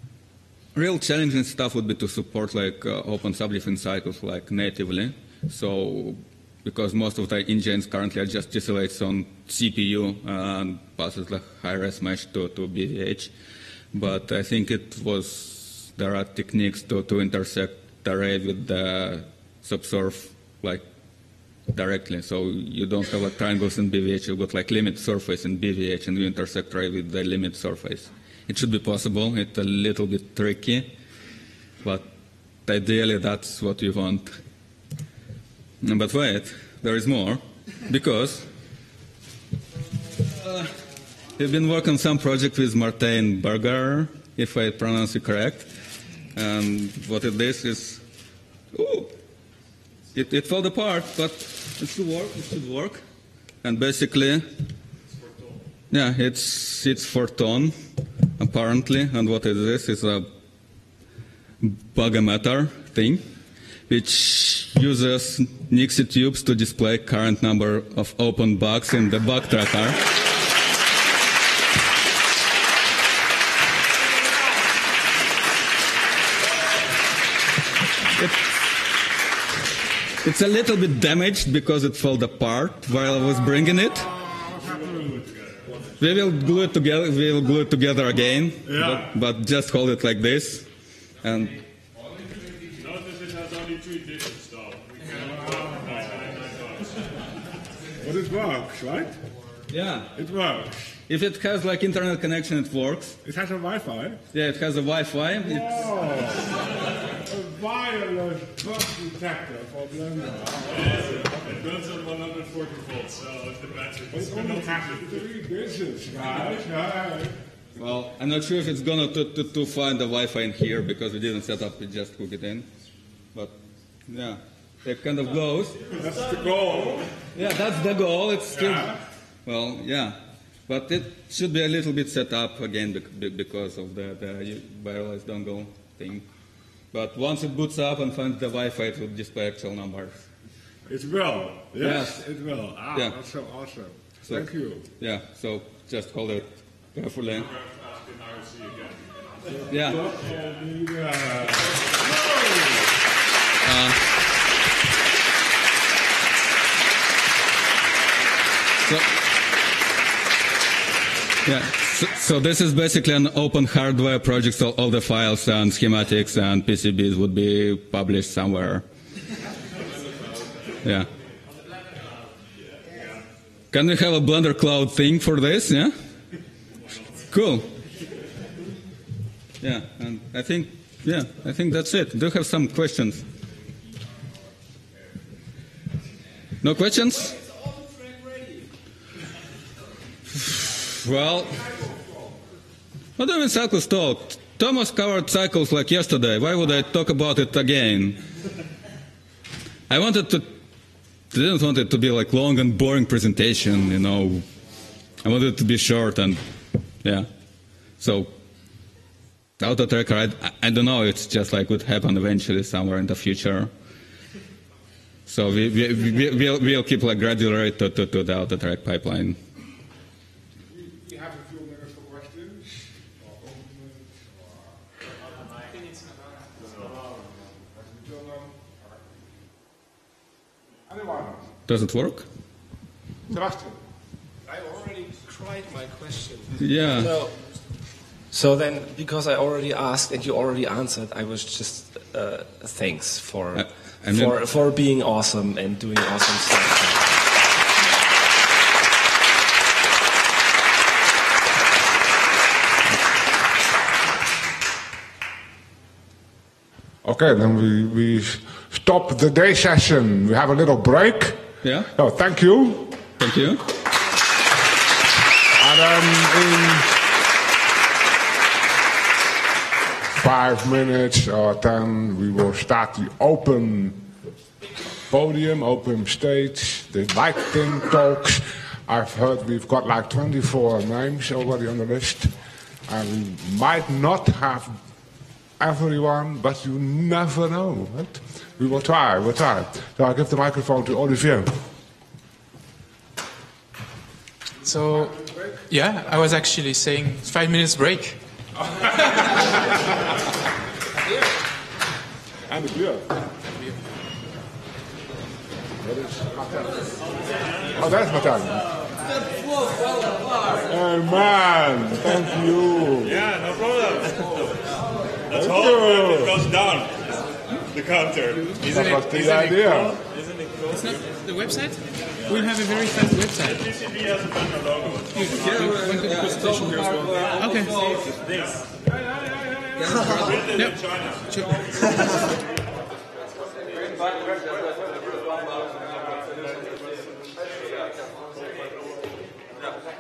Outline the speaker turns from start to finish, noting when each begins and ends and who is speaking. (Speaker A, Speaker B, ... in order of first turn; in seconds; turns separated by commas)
Speaker A: 0.8-13.3, Speaker A: 13.9-20.8, Speaker A: 21.7-30.9, Speaker A: 32.6-34.4, Speaker A: 35.8-38.5, Speaker A: 40.4-40.7, Speaker A: 41.4-45.7, Speaker A: 46.3-48.0, Speaker A: 48.7-49.1, Speaker A: 50.1-53.0, Speaker A: 53.6-54.5, Speaker B: 55.1-55.6, Speaker A: 55.9-57.8, Speaker A: 58.4-60.3, Speaker A: 61.6-63.2, Speaker A: 63.9-70.0, Speaker A: 78.2-78.7, Speaker A: 80.2-84.1, Speaker C: 84.2-85.2, Speaker B: 84.5-85.7, Speaker A: 86.0-90.7, Speaker C: 88.7-89.1, Speaker A: 91.2-91.6, Speaker B: 92.7-97.1, Speaker C: 95.1-96.3, Speaker C: 98.0-99.2, Speaker A: 99.7-100.1, Speaker C: 100.1-100.9, Speaker A: 101.1-103.2, Speaker C: 103.2-104.2, Speaker A: 104.3-106.0, Speaker C: 105.4-111.3, Speaker B: 110.7-115.3, Speaker C: 114.1-117.4, Speaker A: 117.8-122.7, Speaker A: 124.1-125.9, Speaker C: 126.0-127.1, Speaker A: 127.3-136.3, Speaker A: 136.9-140.2, Speaker C: 140.9-144.9, Speaker A: 141.8-142.2, Speaker A: 142.9-143.2, Speaker A: 144.2-147.5, Speaker B: 147.3-149.0, Speaker C: 149.5-152.7, Speaker A: 149.7-150.1, Speaker B: 150.2-150.5, Speaker A: 153.6-154.1, Speaker A: 161.4-168.8, Speaker A: 170.8-171.1, Speaker A: 173.7-175.9, Speaker A: 177.3-177.7, Speaker A: 179.6-183.3, Speaker A: 186.6-187.3, Speaker D: 187.2-188.7, Speaker A: 190.3-191.6, Speaker A: 193.2-198.2, Speaker A: 199.9-200.5, Speaker A: 201.3-204.4, Speaker A: 205.2-206.4, Speaker A: 207.0-207.3, Speaker A: 208.0-208.3, Speaker A: 209.6-213.7, Speaker A: 215.3-219.4, Speaker C: 220.7-224.8, Speaker E: 225.9-226.4, Speaker C: 226.8-228.9, Speaker C: 230.9-231.4, Speaker A: 231.7-232.3, Speaker C: 233.3-233.8, Speaker D: 234.4-237.6, Speaker A: 236.6-237.2, Speaker D: 238.3-247.1, Speaker A: 243.6-244.4, Speaker C: 257.0-263.0, Speaker A: 261.6-261.9, Speaker A: 263.2-263.6, Speaker C: 265.6-267.0, Speaker C: 270.1-274.0, Speaker C: 275.1-282.4, Speaker C: 282.9-284.8, Speaker C: 285.6-291.5, Speaker E: 294.6-295.1, Speaker C: 294.9-295.6, Speaker E: 295.7-298.2, Speaker C: 302.5-303.2, Speaker C: 305.8-306.9, Speaker C: 307.7-308.7, Speaker A: 309.1-310.7, Speaker C: 310.6-313.2, Speaker B: 313.0-314.5, Speaker B: 315.3-321.1, Speaker C: 315.3-316.4, Speaker E: 318.6-319.1, Speaker C: 318.6-320.0, Speaker E: 320.7-323.7, Speaker B: 323.4-326.2, Speaker E: 325.1-328.0, Speaker A: 325.3-328.4, Speaker B: 328.2-328.7, Speaker C: 328.9-329.6, Speaker A: 329.8-330.6, Speaker B: 330.0-332.2, Speaker E: 330.1-332.3, Speaker A: 333.6-337.0, Speaker B: 336.6-337.0, Speaker A: 337.6-337.9